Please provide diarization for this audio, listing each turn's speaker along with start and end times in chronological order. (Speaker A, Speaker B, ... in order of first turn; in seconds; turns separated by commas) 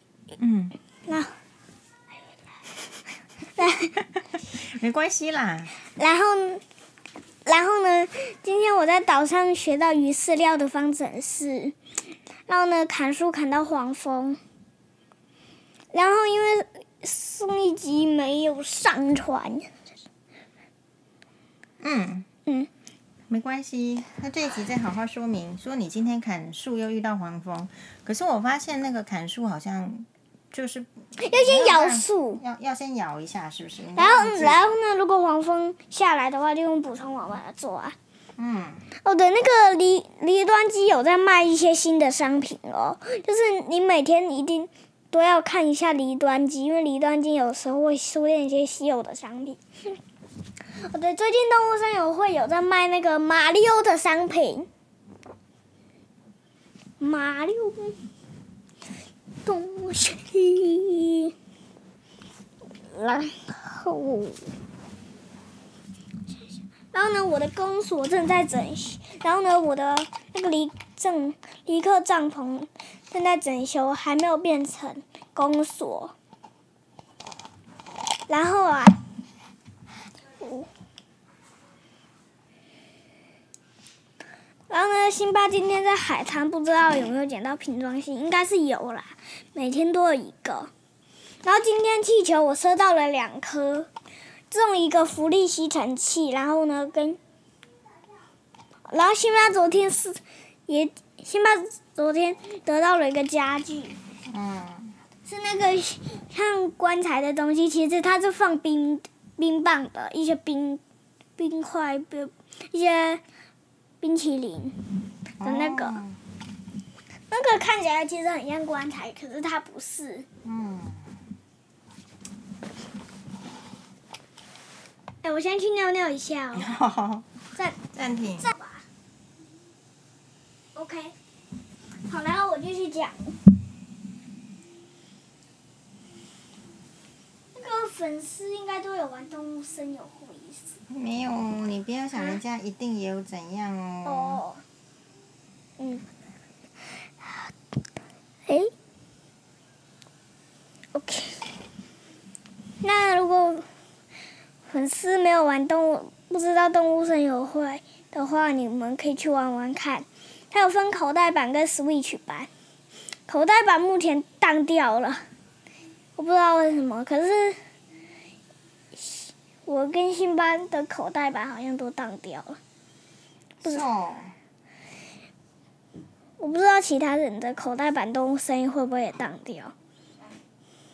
Speaker A: 0.4-0.8, Speaker B: 1.1-1.3, Speaker B: 3.5-3.9, Speaker A: 4.5-5.7, Speaker B: 6.0-6.6, Speaker B: 7.4-11.7, Speaker B: 12.5-14.4, Speaker B: 15.9-19.7, Speaker A: 21.8-22.2, Speaker A: 23.3-34.7, Speaker B: 31.2-32.4, Speaker B: 34.0-37.9, Speaker A: 38.4-38.9, Speaker B: 39.0-49.6, Speaker B: 50.8-54.7, Speaker B: 57.0-58.0, Speaker B: 59.4-61.3, Speaker B: 62.9-64.5, Speaker B: 66.9-76.1, Speaker B: 78.3-79.0, Speaker B: 80.4-80.7, Speaker B: 84.7-90.7, Speaker B: 91.4-93.9, Speaker B: 94.5-97.2, Speaker B: 98.9-104.0, Speaker A: 104.3-105.0, Speaker B: 105.2-110.8, Speaker B: 111.4-113.2, Speaker B: 114.0-114.8, Speaker A: 115.4-116.2, Speaker B: 115.4-116.0, Speaker B: 117.3-120.2, Speaker A: 120.4-121.1, Speaker B: 125.2-126.7, Speaker A: 126.5-127.3, Speaker A: 127.9-128.5, Speaker B: 128.4-128.8, Speaker B: 130.7-131.1, Speaker B: 132.1-133.4, Speaker B: 137.5-140.8, Speaker A: 140.9-144.4, Speaker B: 144.0-144.6, Speaker B: 145.8-146.0, Speaker B: 148.5-148.7, Speaker B: 150.9-151.5, Speaker B: 152.8-153.7, Speaker B: 154.7-162.5, Speaker B: 163.3-165.2, Speaker B: 166.2-167.6, Speaker B: 168.9-172.6, Speaker A: 173.6-174.3, Speaker B: 176.4-179.7